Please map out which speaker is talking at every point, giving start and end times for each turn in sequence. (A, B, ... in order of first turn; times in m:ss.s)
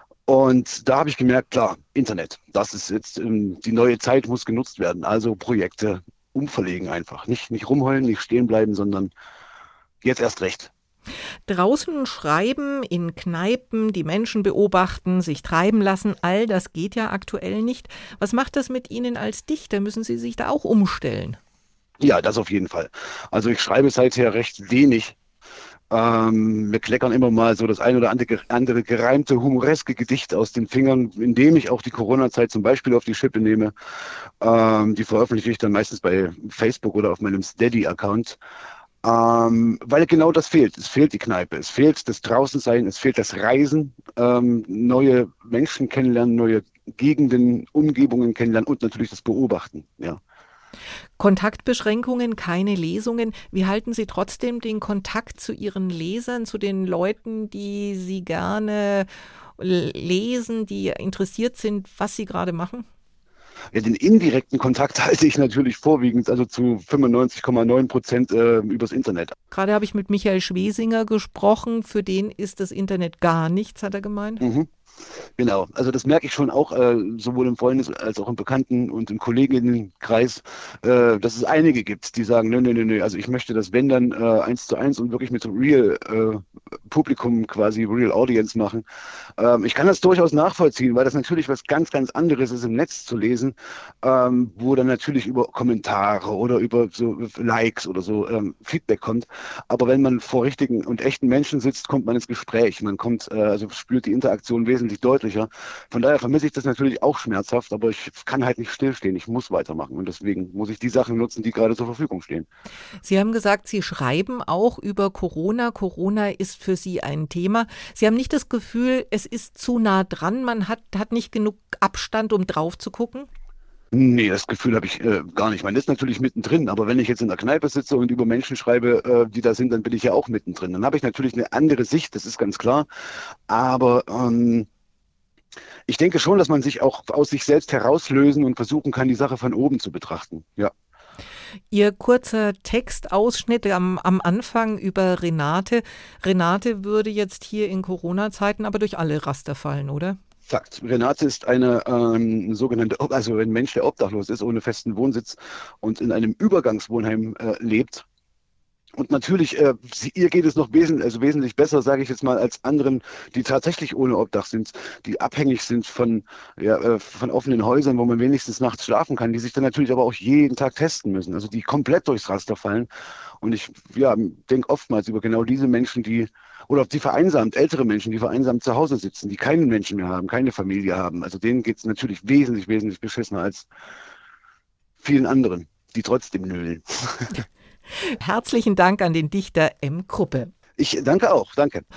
0:00.3-0:09.1 A
0:10.0-0:10.7 A
0:11.5-0:21.4 B
0:22.0-0:25.2 A
0:25.9-0:33.7 A
0:34.4-0:38.4 A
0:39.0-0:50.2 A
0:51.2-1:02.9 B
1:03.7-1:09.4 A
1:09.5-1:14.4 B
1:14.4-1:14.7 A
1:15.4-1:28.8 A
1:29.4-1:52.5 A
1:53.0-2:03.3 B
2:03.9-2:12.9 A
2:13.5-2:14.7 A
2:15.9-2:20.7 A
2:21.7-2:30.2 B
2:30.5-2:38.0 A
2:39.0-2:52.9 A
2:53.4-3:03.7 A
3:05.0-3:07.4 A
3:08.0-3:10.5 B
3:10.8-3:11.8 A